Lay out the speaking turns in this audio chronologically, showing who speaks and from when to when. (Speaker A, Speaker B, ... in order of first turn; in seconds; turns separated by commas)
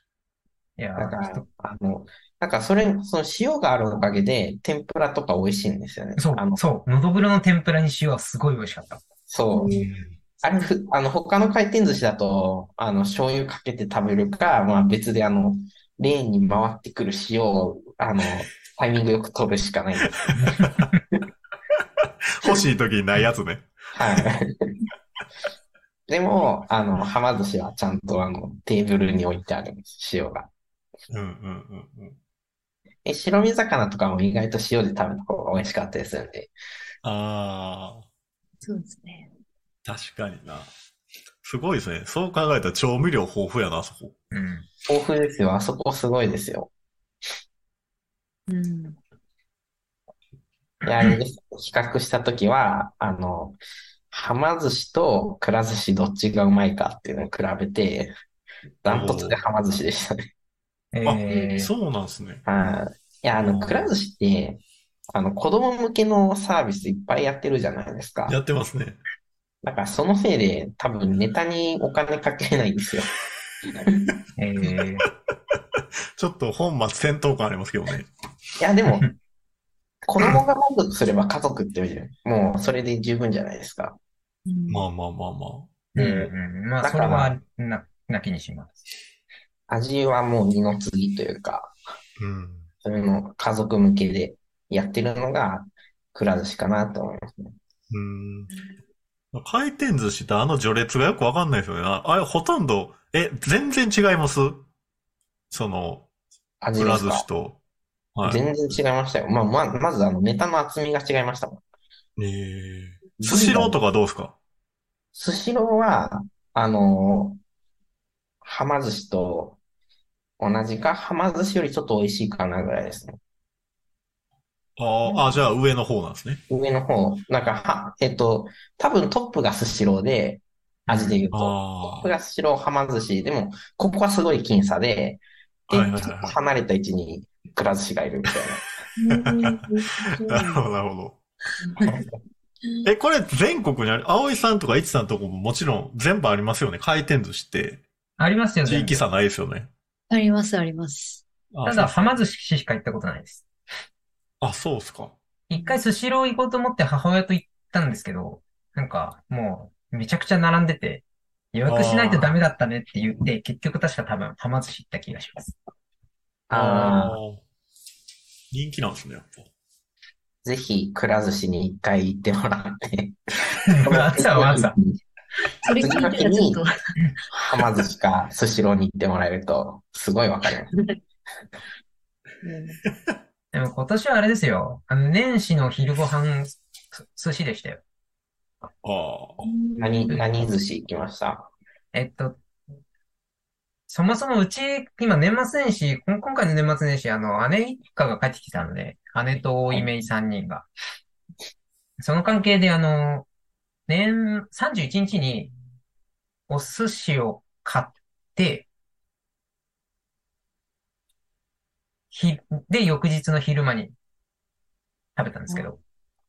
Speaker A: 0.8-1.4, Speaker B: 1.0-6.6, Speaker A: 6.2-9.0, Speaker B: 9.3-9.8, Speaker C: 9.7-10.2, Speaker B: 10.4-20.2, Speaker C: 20.2-20.8, Speaker A: 20.4-21.0, Speaker C: 22.0-24.2, Speaker B: 23.9-24.5, Speaker B: 26.1-30.5, Speaker C: 31.1-32.2, Speaker B: 33.0-36.5, Speaker C: 37.0-38.0, Speaker D: 38.6-39.3, Speaker C: 39.9-40.7, Speaker C: 41.4-44.1, Speaker A: 44.3-44.6, Speaker B: 44.9-46.7, Speaker D: 48.5-49.0, Speaker B: 50.8-53.6, Speaker B: 54.1-58.1, Speaker B: 58.8-60.2, Speaker C: 58.9-59.4, Speaker A: 60.9-61.7, Speaker C: 61.0-62.4, Speaker B: 62.5-64.6, Speaker C: 63.4-63.9, Speaker B: 65.1-68.3, Speaker C: 68.3-69.0, Speaker B: 69.6-73.1, Speaker B: 73.8-74.2, Speaker A: 74.4-75.0, Speaker C: 76.2-78.1, Speaker B: 78.6-79.1, Speaker B: 80.0-84.0, Speaker D: 84.5-84.8, Speaker C: 84.7-85.7, Speaker A: 85.9-88.7, Speaker B: 86.0-87.3, Speaker B: 89.7-91.8, Speaker C: 92.2-92.7, Speaker B: 92.8-97.5, Speaker C: 97.9-98.5, Speaker C: 99.3-104.7, Speaker C: 105.5-106.1, Speaker B: 106.6-107.2, Speaker C: 106.7-107.6, Speaker C: 108.1-108.4, Speaker B: 108.2-111.6, Speaker C: 112.2-114.3, Speaker B: 113.2-113.8, Speaker B: 115.1-117.4, Speaker B: 118.4-119.6, Speaker B: 120.4-123.2, Speaker C: 124.8-126.4, Speaker B: 126.5-138.7, Speaker C: 130.9-132.1, Speaker C: 135.7-136.4, Speaker D: 139.0-140.6, Speaker C: 139.1-141.2, Speaker D: 141.6-141.9, Speaker C: 142.8-147.8, Speaker A: 148.2-149.0, Speaker C: 148.6-149.7, Speaker D: 150.1-151.2, Speaker C: 151.5-152.1, Speaker A: 151.6-153.4, Speaker C: 154.4-155.2, Speaker A: 155.5-165.5, Speaker C: 161.7-162.4, Speaker B: 166.5-167.2, Speaker C: 166.5-167.4, Speaker C: 168.5-169.5, Speaker B: 170.4-173.2, Speaker A: 173.6-174.7, Speaker B: 173.8-175.0, Speaker D: 175.6-176.7, Speaker B: 175.8-176.6, Speaker B: 177.3-180.7, Speaker D: 182.4-182.8, Speaker A: 183.5-187.8, Speaker C: 188.8-189.4, Speaker D: 189.4-190.2, Speaker B: 189.8-191.5, Speaker A: 191.9-192.4, Speaker A: 193.9-200.7, Speaker A: 202.0-203.3, Speaker A: 203.9-205.5, Speaker A: 206.5-208.7, Speaker A: 212.1-213.9, Speaker A: 215.2-215.8